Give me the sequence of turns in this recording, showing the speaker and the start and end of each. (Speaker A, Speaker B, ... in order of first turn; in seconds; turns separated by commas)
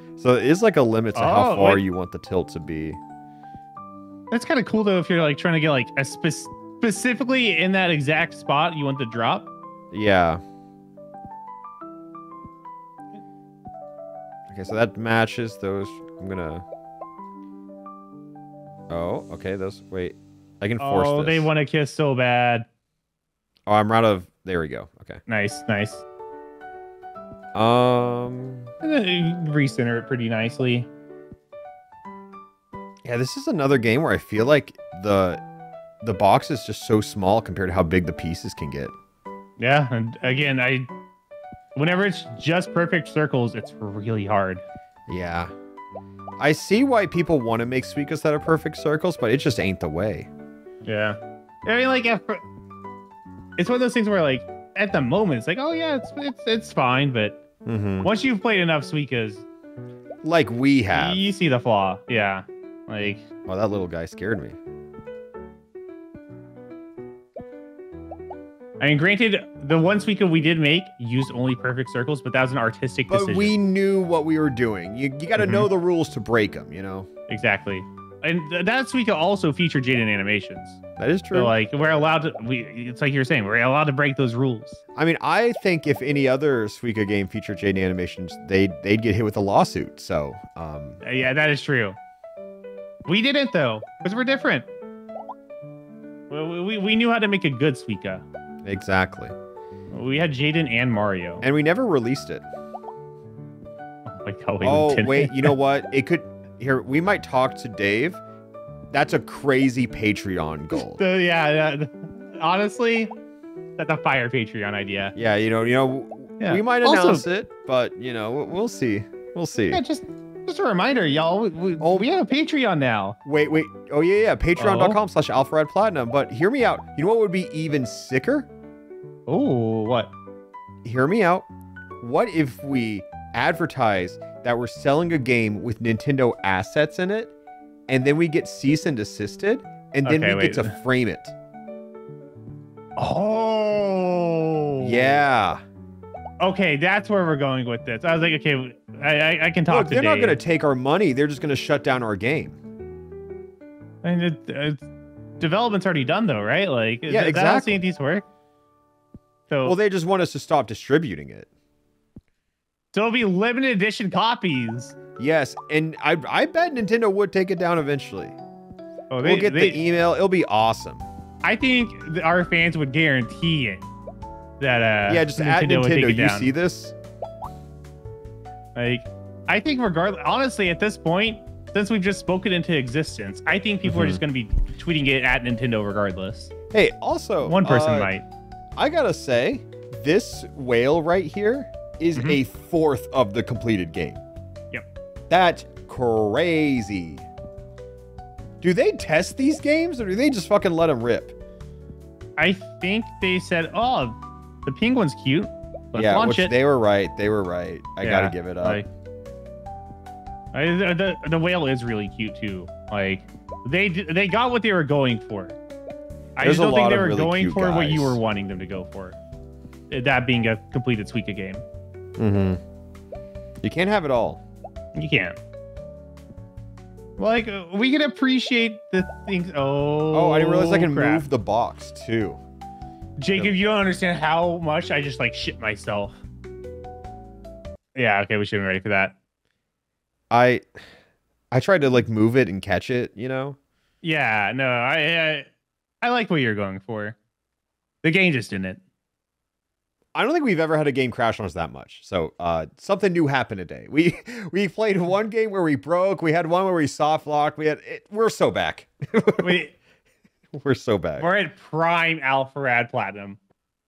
Speaker A: 0.2-3.0, Speaker B: 1.1-1.8, Speaker B: 4.3-9.5, Speaker A: 9.9-10.4, Speaker A: 14.5-16.6, Speaker A: 18.9-21.5, Speaker B: 20.8-22.6, Speaker A: 23.7-25.2, Speaker B: 25.3-26.0, Speaker A: 27.5-28.7, Speaker B: 28.8-30.9, Speaker A: 33.0-35.4, Speaker A: 36.0-38.9, Speaker B: 39.6-40.9, Speaker B: 41.7-44.6, Speaker A: 45.1-45.5, Speaker A: 46.4-50.3, Speaker B: 50.8-52.4, Speaker B: 53.6-57.4, Speaker A: 57.6-58.1, Speaker B: 58.0-59.4, Speaker A: 60.2-61.3, Speaker B: 60.9-63.2, Speaker A: 63.4-64.5, Speaker B: 68.8-73.5, Speaker A: 73.1-77.1, Speaker B: 75.4-75.7, Speaker B: 77.3-80.8, Speaker A: 81.0-81.5, Speaker B: 81.3-84.8, Speaker A: 85.0-91.0, Speaker B: 91.0-92.0, Speaker B: 93.0-94.7, Speaker B: 96.3-98.2, Speaker A: 98.6-99.3, Speaker B: 99.9-101.4, Speaker A: 101.4-102.4, Speaker B: 104.0-105.5, Speaker A: 104.6-108.2, Speaker A: 108.9-111.0, Speaker B: 110.7-113.1, Speaker B: 113.8-115.1, Speaker A: 115.1-119.8, Speaker B: 116.4-117.2, Speaker B: 119.7-123.2, Speaker A: 121.8-122.1, Speaker A: 123.2-128.5, Speaker B: 124.6-125.0, Speaker B: 129.3-130.1, Speaker A: 130.8-131.5, Speaker A: 132.0-137.3, Speaker A: 137.9-141.3, Speaker B: 140.0-140.7, Speaker B: 143.0-145.2, Speaker A: 144.8-145.6, Speaker B: 146.4-150.4, Speaker A: 149.7-152.6, Speaker B: 154.0-154.8, Speaker B: 155.4-158.2, Speaker A: 157.1-157.8, Speaker B: 159.5-159.7, Speaker A: 159.6-161.5, Speaker B: 162.9-164.9, Speaker A: 165.2-168.3, Speaker B: 169.1-169.8, Speaker A: 169.2-171.0, Speaker B: 171.4-173.9, Speaker B: 174.6-176.5, Speaker A: 175.1-176.9, Speaker B: 178.7-186.5, Speaker A: 183.8-184.2, Speaker A: 186.7-188.1, Speaker B: 187.4-188.2, Speaker A: 188.8-194.2, Speaker A: 195.3-197.2, Speaker A: 198.6-201.3, Speaker B: 202.4-206.5, Speaker A: 206.0-208.8, Speaker B: 208.0-208.9, Speaker B: 210.5-215.6, Speaker B: 216.4-219.2, Speaker A: 216.4-218.2, Speaker B: 219.9-221.6, Speaker A: 222.2-222.6, Speaker A: 223.6-224.4, Speaker B: 224.9-225.3, Speaker B: 227.2-231.3, Speaker A: 230.1-232.4, Speaker B: 233.2-236.1, Speaker B: 237.9-239.2, Speaker A: 240.3-240.7, Speaker A: 241.5-243.6, Speaker B: 244.0-245.5, Speaker B: 246.0-247.2, Speaker B: 248.0-248.8, Speaker A: 250.1-259.6, Speaker B: 259.4-259.7, Speaker A: 260.5-261.3, Speaker B: 261.2-263.4